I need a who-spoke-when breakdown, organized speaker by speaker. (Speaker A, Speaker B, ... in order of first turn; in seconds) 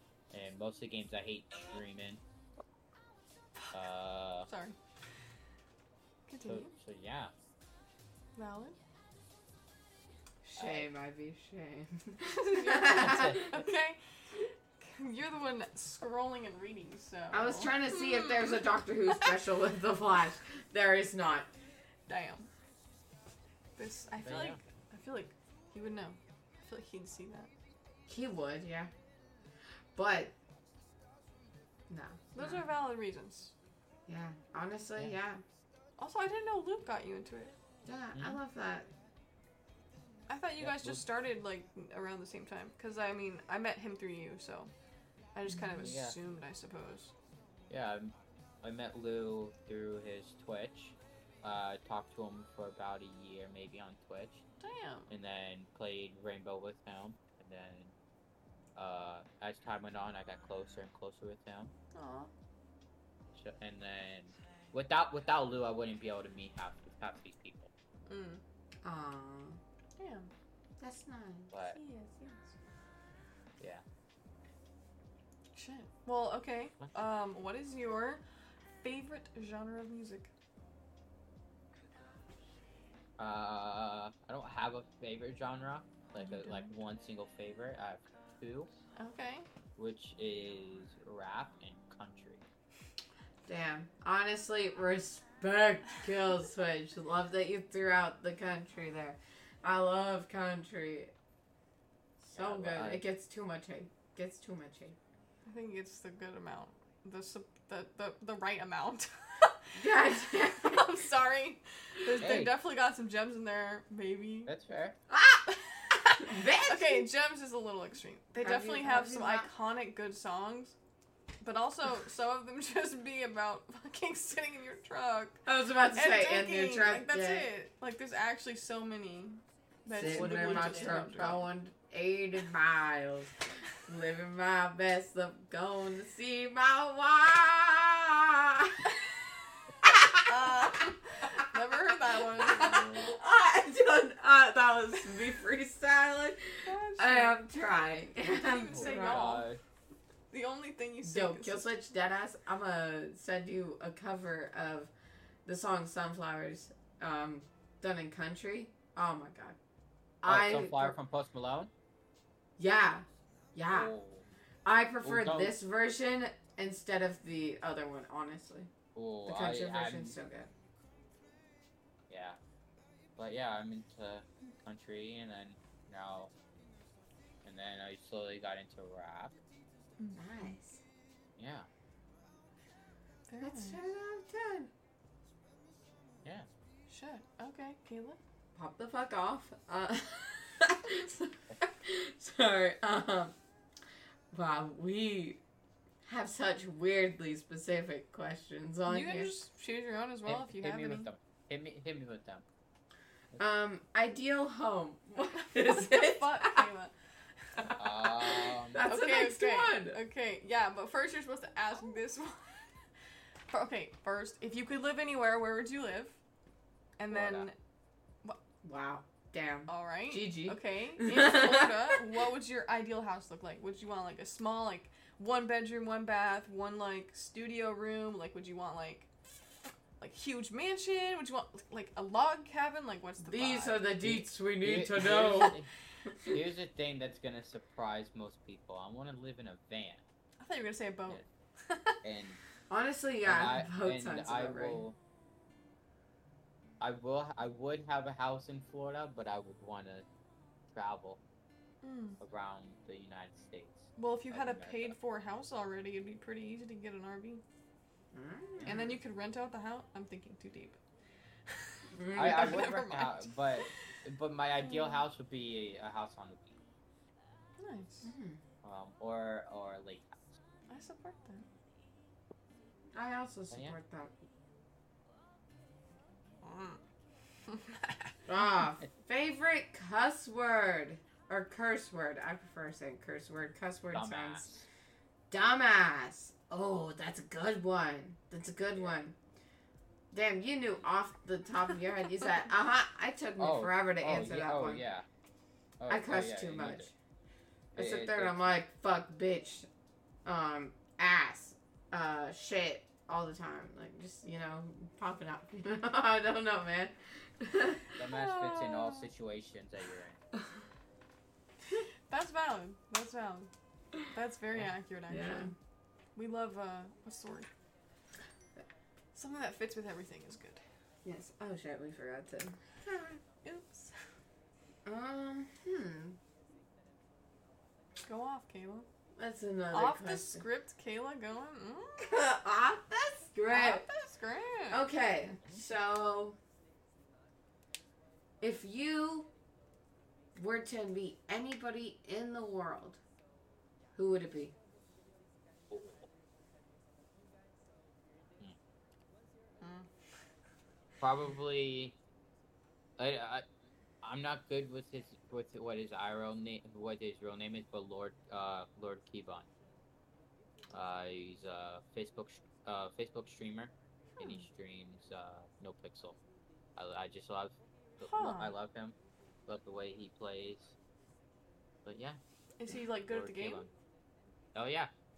Speaker A: 0.3-2.2, 3.7-4.5, 6.5-7.3, 10.6-10.9, 12.9-13.7, 24.2-24.6, 40.6-41.0, 45.7-46.2, 47.7-54.4, 55.1-57.9, 58.8-61.7, 63.3-67.7, 71.5-71.8, 83.2-88.7, 89.8-92.4, 102.3-103.0, 112.2-112.6, 114.5-115.0, 130.0-131.4, 142.4-143.1, 148.7-149.6, 160.3-161.7, 163.7-164.3, 165.0-165.6, 168.9-170.2, 172.1-172.4, 173.2-176.3, 177.4-179.4, 181.4-181.7, 200.3-202.4, 207.8-208.8, 217.1-217.5, 234.0-235.7, 236.2-240.0, 242.0-242.4, 243.2-245.0, 246.8-250.1, 250.7-251.2, 252.2-255.0, 262.1-266.6, 268.6-270.2, 283.9-284.6, 293.4-295.1, 295.8-296.9, 297.8-298.6, 308.0-310.2, 345.7-346.1, 351.0-352.0, 353.0-353.4, 354.0-359.5, 360.7-366.2, 366.8-369.0, 369.5-370.7, 371.9-372.2, 373.1-373.7, 374.5-374.9
Speaker B: 4.5-4.8, 6.3-6.7, 8.4-8.8, 12.2-19.3, 22.1-22.5, 23.8-27.5, 32.4-33.5, 36.0-37.6, 40.3-44.7, 45.4-47.1, 54.6-55.1, 61.9-62.3, 68.1-68.4, 70.0-70.3, 71.7-72.4, 75.5-78.2, 78.8-80.3, 86.2-86.7, 89.0-89.5, 105.5-114.5, 115.6-120.8, 121.4-131.4, 138.8-139.1, 140.2-142.9, 146.7-147.4, 148.3-149.5, 150.3-151.7, 180.0-180.5, 183.3-183.8, 186.9-188.2, 198.9-201.1, 205.3-206.9, 208.8-212.7, 213.5-216.2, 217.0-217.6, 219.7-229.1, 230.0-233.9, 240.4-242.0, 251.8-252.2, 254.0-257.4, 258.6-260.8, 261.5-263.6, 264.6-265.0, 267.6-268.1, 270.7-271.5, 276.4-276.8, 277.5-278.1, 308.0-309.1, 312.1-313.5, 314.0-315.5, 316.1-317.5, 319.1-320.6, 323.4-323.9, 328.0-328.9, 329.7-332.1, 333.5-334.8, 349.6-349.9, 368.0-368.5, 372.6-373.7
Speaker C: 10.4-13.5, 17.3-21.5, 28.1-28.9, 29.9-30.3, 31.9-32.7, 34.1-35.4, 37.9-38.9, 68.8-69.6, 70.8-71.5, 93.5-101.1, 102.2-105.0, 109.8-111.0, 115.1-115.5, 116.2-117.1, 118.4-119.5, 125.5-127.5, 129.9-138.9, 139.8-140.7, 142.4-149.4, 151.0-154.9, 155.5-159.6, 160.2-161.0, 162.6-163.9, 164.7-168.7, 169.3-170.5, 180.2-180.8, 183.4-184.7, 188.6-193.3, 194.3-195.4, 196.1-199.3, 203.4-206.7, 207.6-210.0, 218.6-222.0, 233.2-236.4, 242.7-244.8, 258.1-259.0, 261.9-262.7, 268.0-268.4, 272.9-274.1, 278.3-284.5, 285.3-289.2, 290.1-294.8, 295.9-296.9, 297.8-299.7, 300.2-307.9, 315.1-315.5, 321.1-323.2, 324.9-326.2, 329.2-330.4, 332.0-333.8, 334.7-336.4, 338.4-339.3, 340.4-343.0, 344.0-344.6